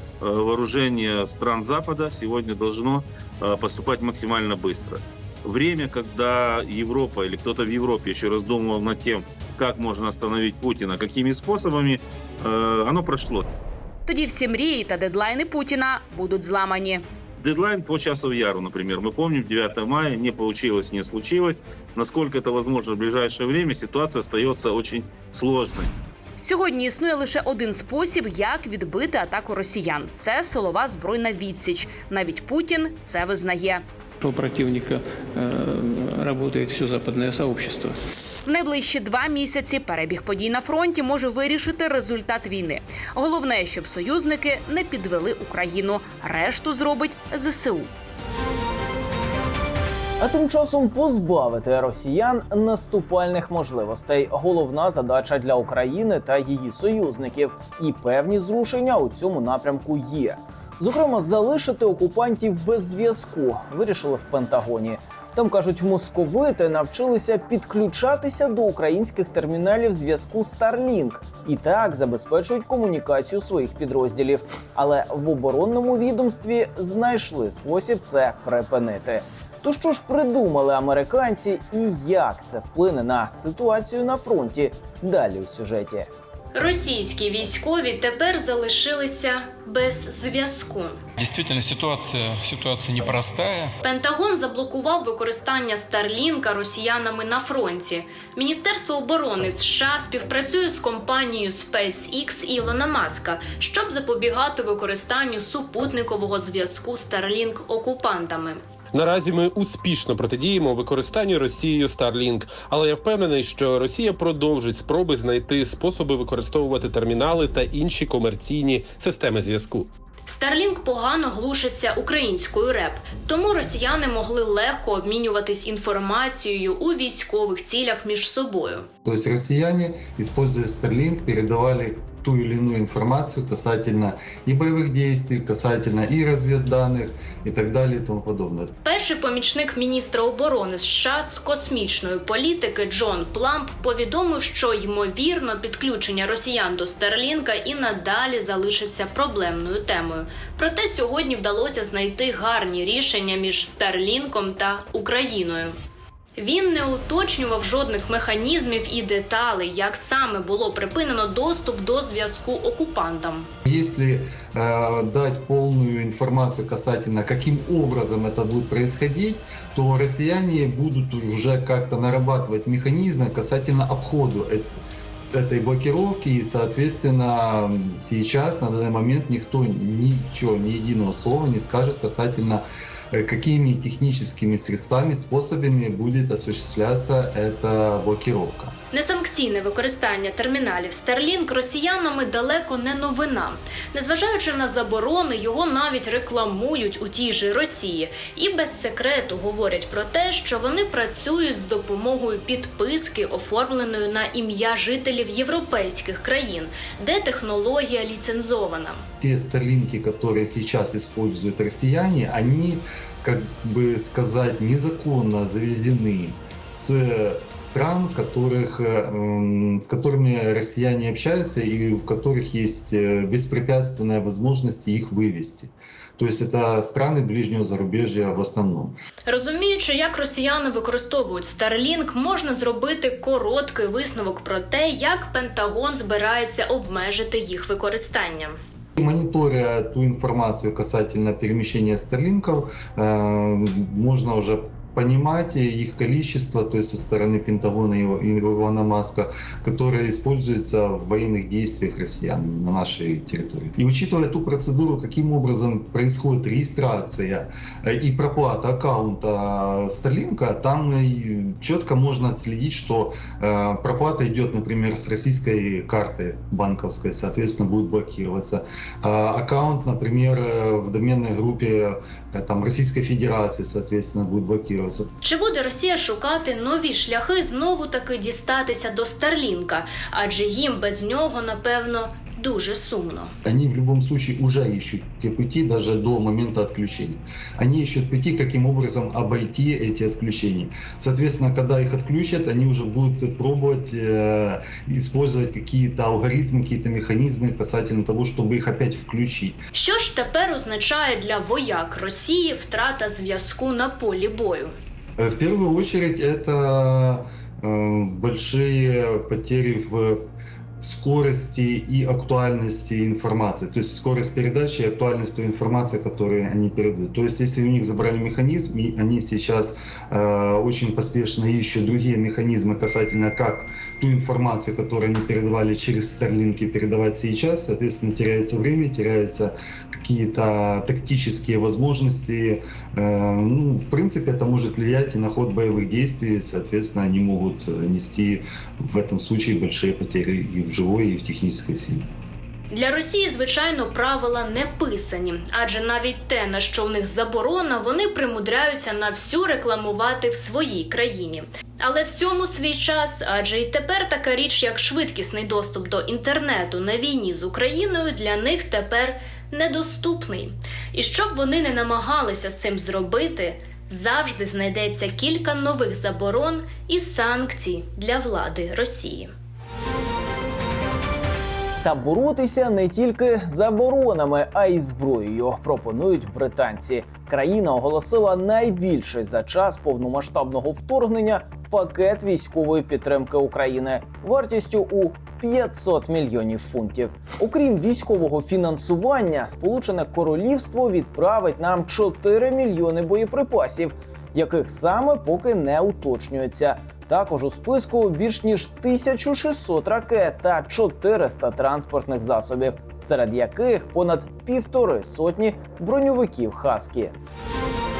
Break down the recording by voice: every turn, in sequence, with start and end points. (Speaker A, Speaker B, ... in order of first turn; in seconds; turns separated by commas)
Speaker A: 0.2-13.5, Speaker B: 14.1-17.0, Speaker A: 17.4-25.9, Speaker B: 26.4-33.8, Speaker C: 34.2-38.0, Speaker B: 38.5-47.9, Speaker D: 50.2-86.1, Speaker E: 86.5-91.0, Speaker F: 91.2-93.7, Speaker E: 93.8-108.6, Speaker G: 109.0-119.9, Speaker E: 120.3-128.9, Speaker H: 129.0-138.7, Speaker E: 138.8-155.7, Speaker E: 156.4-163.5, Speaker H: 163.7-174.8, Speaker H: 175.3-188.8, Speaker E: 188.9-209.0, Speaker H: 209.2-229.0, Speaker E: 229.3-238.6, Speaker H: 239.0-275.1, Speaker E: 275.2-283.3, Speaker H: 283.4-299.6, Speaker E: 299.7-304.7, Speaker H: 305.2-310.3, Speaker H: 310.8-342.1, Speaker E: 342.7-369.3, Speaker D: 371.8-407.1